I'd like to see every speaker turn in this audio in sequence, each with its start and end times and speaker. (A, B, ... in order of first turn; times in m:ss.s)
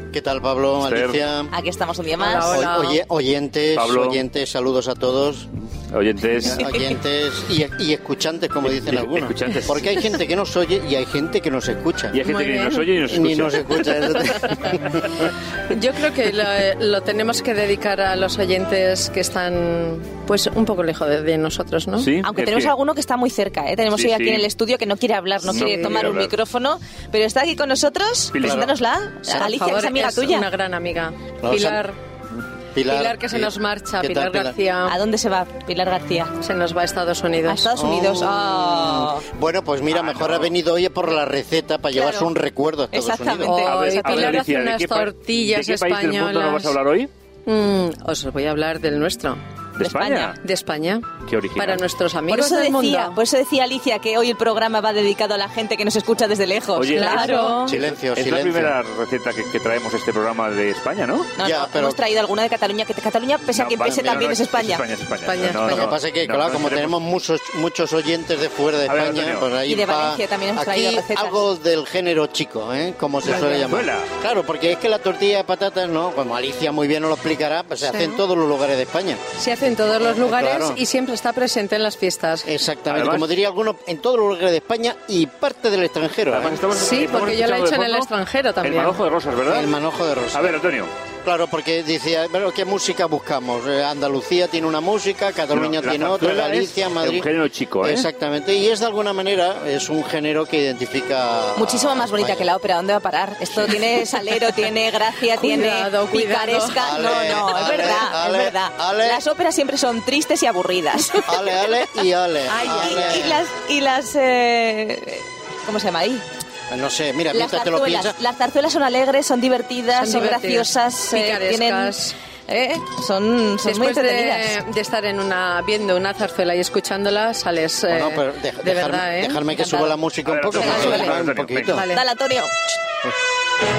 0:00.1-0:01.5 A
0:00.8-0:01.7 B
0:01.5-0:02.4 C
0:02.2-0:03.0 D
0:02.5-0:05.5 A
0:03.7-0:04.2 B
0:05.9-0:06.9 B
0:06.4-0:12.2 A
0:08.6-0:10.0 B
0:12.1-0:13.8 B
0:12.2-0:12.9 D
0:13.0-0:15.3 A
0:14.2-0:14.6 D
0:15.7-0:22.2 D
0:22.0-0:22.8 B
0:22.2-0:30.4 C
0:23.9-0:24.6 B
0:25.4-0:26.4 B
0:25.5-0:26.3 D
0:28.2-0:30.3 B
0:28.4-0:28.7 A
0:29.3-0:32.0 D
0:31.4-0:31.8 A
0:32.7-0:34.5 A
0:32.9-0:35.0 D
0:34.9-0:36.3 C
0:36.4-0:37.7 D
0:37.5-0:39.2 C
0:37.8-0:43.7 A
0:37.8-0:38.2 B
0:39.9-0:40.5 B
0:42.9-0:44.2 C
0:43.0-0:47.1 B
0:43.4-0:46.8 D
0:47.4-0:49.4 D
0:49.8-0:50.4 B
0:49.8-0:50.3 C
0:50.3-0:53.2 D
0:51.2-0:51.8 B
0:52.3-0:57.6 C
0:52.4-0:53.1 B
0:56.7-1:01.8 B
0:56.9-0:57.8 D
0:57.6-0:58.7 A
1:01.4-1:04.8 C
1:01.4-1:02.0 A
1:03.4-1:06.9 B
1:05.2-1:05.9 D
1:05.6-1:19.2 A
1:08.8-1:10.2 B
1:09.6-1:11.3 C
1:11.0-1:11.3 B
1:13.3-1:14.1 B
1:13.4-1:13.7 D
1:17.8-1:18.2 D
1:19.4-1:22.5 D
1:20.0-1:20.8 A
1:22.4-1:26.6 A
1:22.9-1:23.3 B
1:26.3-1:28.1 B
1:26.7-1:29.0 D
1:28.6-1:29.7 B
1:29.5-1:30.6 A
1:30.3-1:30.9 B
1:31.2-1:37.3 A
1:35.5-1:38.1 B
1:37.8-1:42.5 A
1:41.6-1:51.4 C
1:43.4-1:44.5 B
1:45.3-1:46.9 D
1:45.7-1:46.2 B
1:46.8-1:48.2 B
1:46.8-1:49.2 A
1:47.5-1:48.0 D
1:51.2-1:53.4 A
1:52.5-1:53.3 D
1:52.6-1:56.2 C
1:52.7-1:53.2 B
1:56.7-1:58.2 A
1:57.3-2:01.9 C
1:59.9-2:02.2 D
2:02.5-2:04.5 C
2:03.6-2:10.0 D
2:07.9-2:11.9 A
2:10.2-2:11.8 B
2:10.5-2:12.0 D
2:10.6-2:11.0 C
2:11.9-2:12.5 C